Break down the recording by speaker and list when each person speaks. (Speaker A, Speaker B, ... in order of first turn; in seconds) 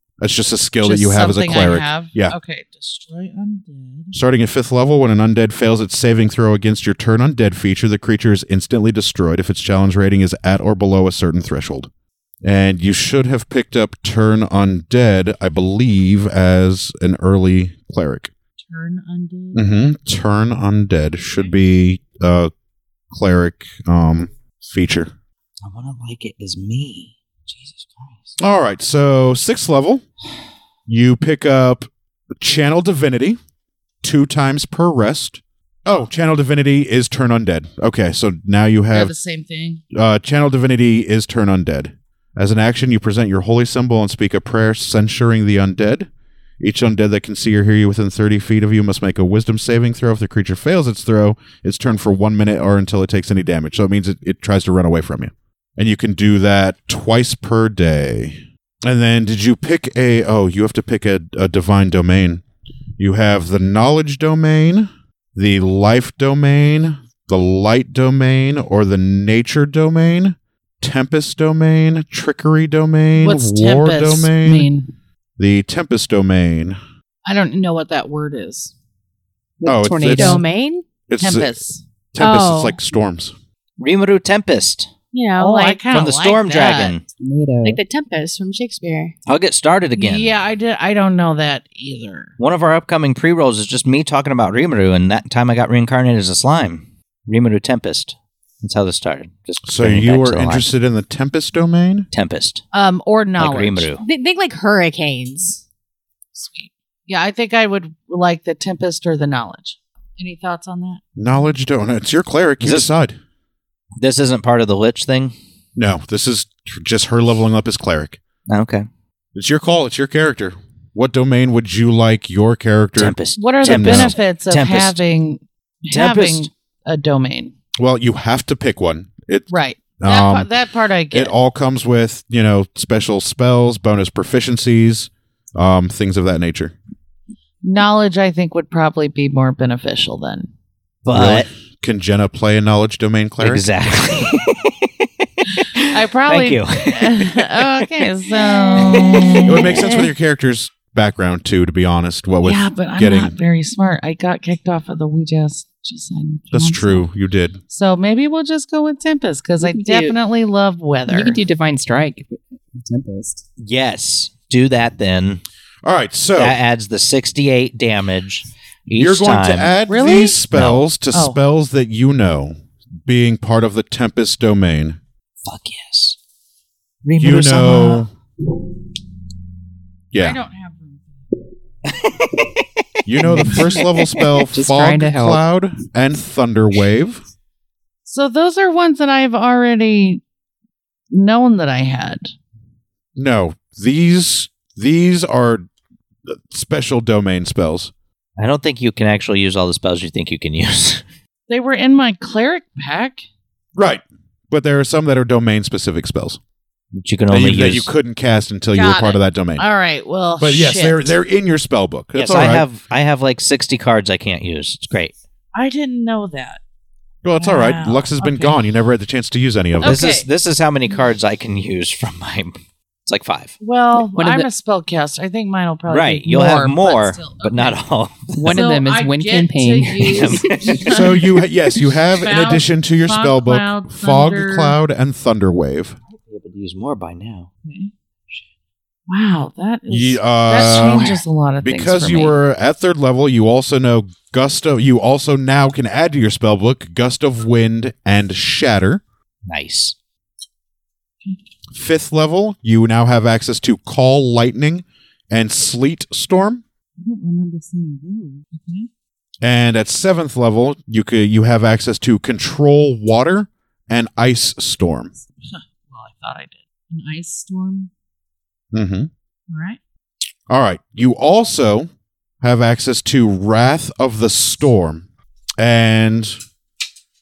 Speaker A: 0.2-2.4, 4.1-11.9, 12.4-18.3, 19.5-22.5, 23.1-25.1, 28.4-30.1, 30.9-33.4, 34.0-39.1, 39.9-46.1, 46.6-62.4, 63.0-74.7, 75.4-76.8, 79.6-80.4, 81.1-81.5, 82.1-83.3, 99.7-102.1, 111.2-113.2, 115.8-118.2, 119.3-124.1, 127.8-130.5, 131.1-136.8, 141.1-143.6, 149.5-153.3, 156.5-157.6, 165.8-166.6, 169.0-175.0, 177.2-178.1, 180.1-180.4, 183.1-187.2, 193.2-195.7, 196.2-197.9, 203.8-206.4, 207.3-209.6, 210.4-212.7, 217.2-220.0, 230.9-236.0, 239.9-249.0, 251.7-256.6, 259.4-265.1, 268.7-269.1, 270.5-271.9, 272.4-275.1, 275.6-276.4
Speaker B: 0.8-4.2, 18.6-19.6, 38.9-39.8, 73.2-74.9, 77.3-78.7, 81.2-81.8, 85.4-87.0, 90.0-92.3, 102.7-103.9, 106.3-111.0, 123.4-127.5, 129.5-131.3, 137.6-140.5, 145.8-149.9, 152.4-157.1, 157.7-161.4, 169.9-170.4, 171.1-171.4, 180.2-181.3, 188.1-190.2, 191.1-192.3, 201.5-203.3, 208.7-211.1, 215.5-216.6, 217.4-218.6, 219.8-220.3, 223.6-227.8, 228.5-231.2, 232.1-234.8, 237.7-237.9, 239.1-242.4, 257.0-258.9, 265.5-267.9, 269.5-269.8
Speaker C: 25.6-28.4, 83.8-84.9, 85.9-87.0, 89.3-90.3, 92.4-100.7, 102.1-102.6, 103.4-104.0, 112.6-112.9, 114.0-115.3, 118.5-118.9, 123.0-125.0, 125.9-126.5, 141.1-141.5, 143.4-147.8, 148.5-149.9, 163.6-165.4, 166.4-169.7, 170.5-170.8, 175.4-176.2, 177.1-178.1, 181.8-182.8, 183.4-184.3, 198.4-201.1, 206.9-207.9, 212.2-215.1, 219.8-223.6, 225.9-228.6, 230.1-231.1, 236.2-237.5, 249.5-249.9
Speaker D: 79.6-80.5, 87.2-87.8, 159.6-160.2, 161.1-163.4, 183.2-185.4, 224.0-224.5, 228.3-230.8
Speaker E: 80.1-80.8, 82.2-82.8, 85.1-85.8, 87.6-89.2, 104.0-105.6